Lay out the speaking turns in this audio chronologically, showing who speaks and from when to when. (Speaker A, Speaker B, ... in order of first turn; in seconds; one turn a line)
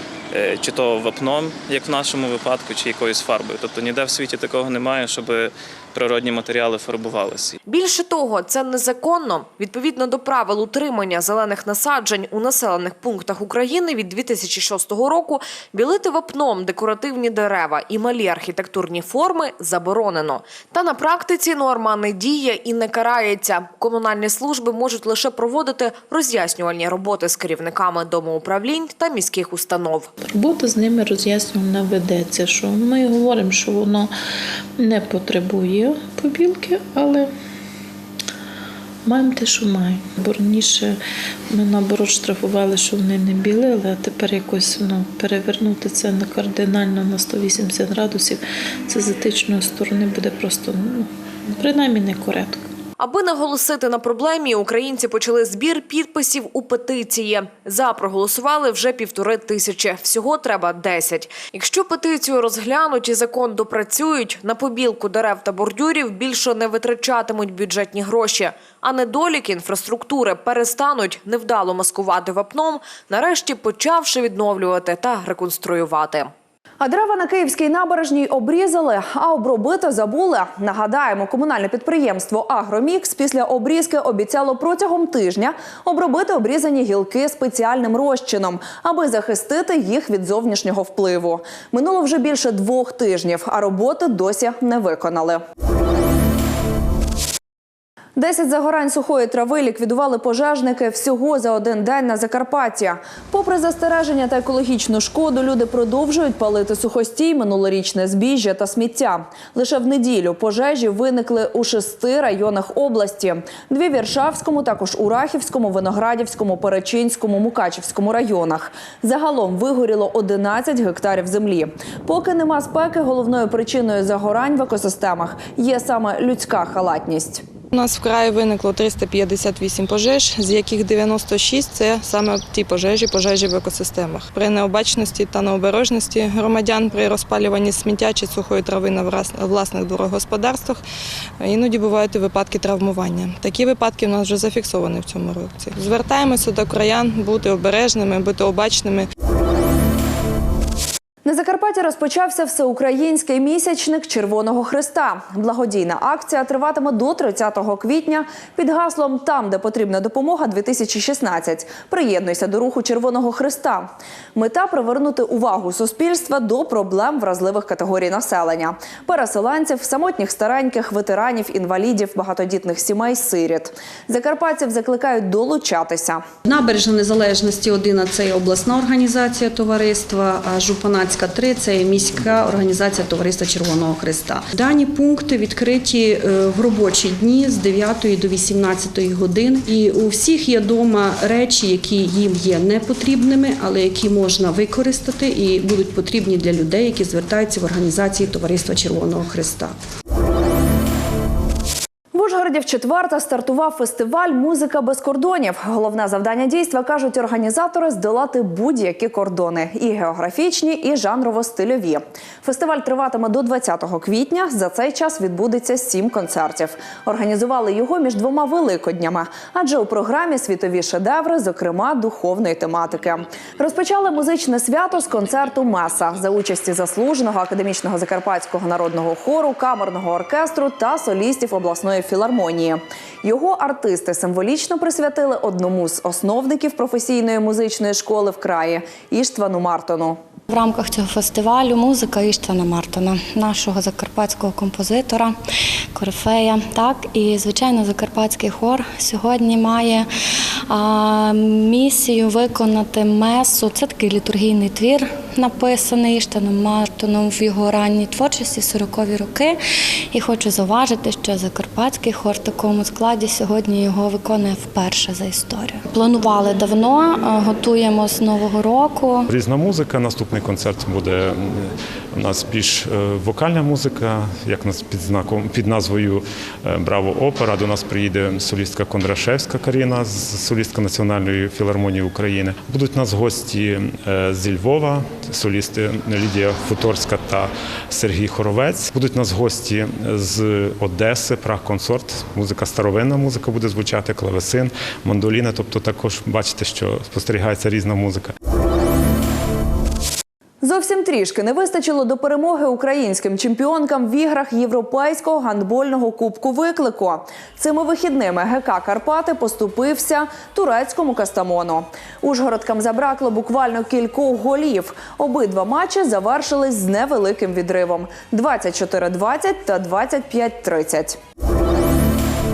Speaker A: 0.3-7.5
Speaker B: 7.7-30.1
Speaker C: 30.2-34.1
Speaker C: 34.8-37.3
Speaker C: 39.1-40.9
Speaker C: 41.5-51.1
Speaker C: 51.6-52.6
Speaker B: 53.0-76.3
Speaker D: 76.8-95.4
Speaker D: 98.2-127.4
Speaker E: 127.7-140.8
Speaker E: 141.4-149.1
Speaker D: 151.2-176.2
Speaker F: 176.4-199.8
Speaker D: 202.1-240.2
Speaker G: 240.5-245.3
Speaker G: 245.9-250.1
Speaker G: 250.7-259.6
Speaker G: 260.1-269.3
Speaker H: 269.3-298.3
Speaker D: 300.6-321.2